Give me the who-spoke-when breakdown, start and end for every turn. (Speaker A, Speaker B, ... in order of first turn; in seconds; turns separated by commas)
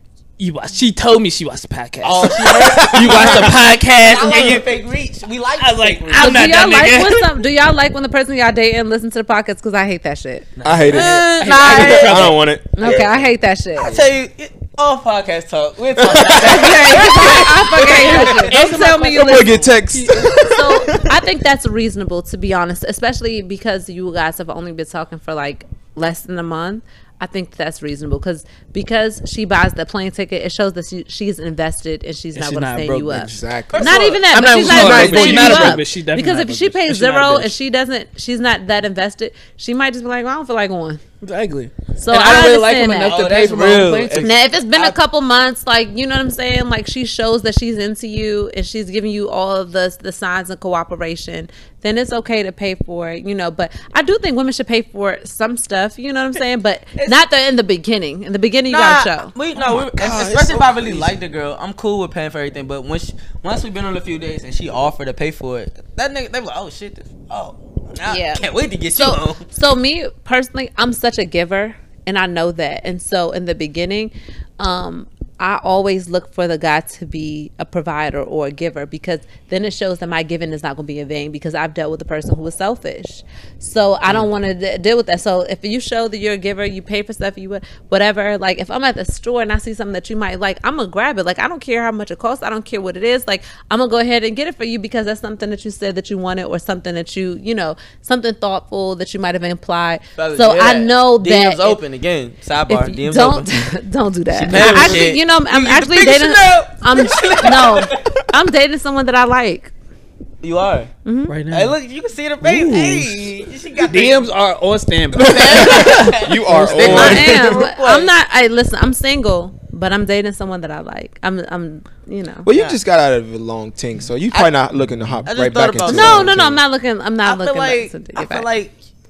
Speaker A: 0.4-4.6, Speaker B: 2.0-6.7, Speaker C: 2.4-3.5, Speaker A: 5.6-7.3, Speaker D: 6.2-10.5, Speaker A: 10.6-12.9, Speaker C: 10.6-13.1, Speaker B: 10.8-13.1, Speaker D: 11.4-14.0, Speaker B: 13.8-18.6, Speaker C: 16.0-17.0, Speaker D: 16.4-19.7, Speaker A: 16.8-20.3, Speaker C: 19.1-21.2, Speaker D: 20.4-41.0, Speaker A: 32.4-33.4, Speaker C: 33.2-35.8, Speaker B: 33.7-34.6, Speaker A: 34.3-37.5, Speaker A: 41.2-44.4, Speaker D: 42.0-43.2, Speaker B: 42.9-45.0, Speaker D: 44.2-59.3, Speaker B: 58.7-69.4, Speaker C: 59.6-61.2, Speaker D: 68.1-101.8, Speaker B: 100.2-103.7, Speaker D: 102.7-109.7, Speaker B: 104.3-108.2, Speaker A: 104.5-105.1, Speaker B: 110.4-110.9, Speaker D: 111.0-111.4, Speaker A: 111.3-111.7, Speaker B: 111.5-114.3, Speaker A: 112.4-117.3, Speaker B: 115.2-118.1, Speaker C: 115.4-117.6, Speaker D: 116.9-122.5, Speaker C: 122.5-126.6, Speaker B: 122.5-122.8, Speaker B: 124.3-124.6, Speaker B: 125.2-126.4, Speaker D: 125.9-128.5, Speaker B: 127.2-128.7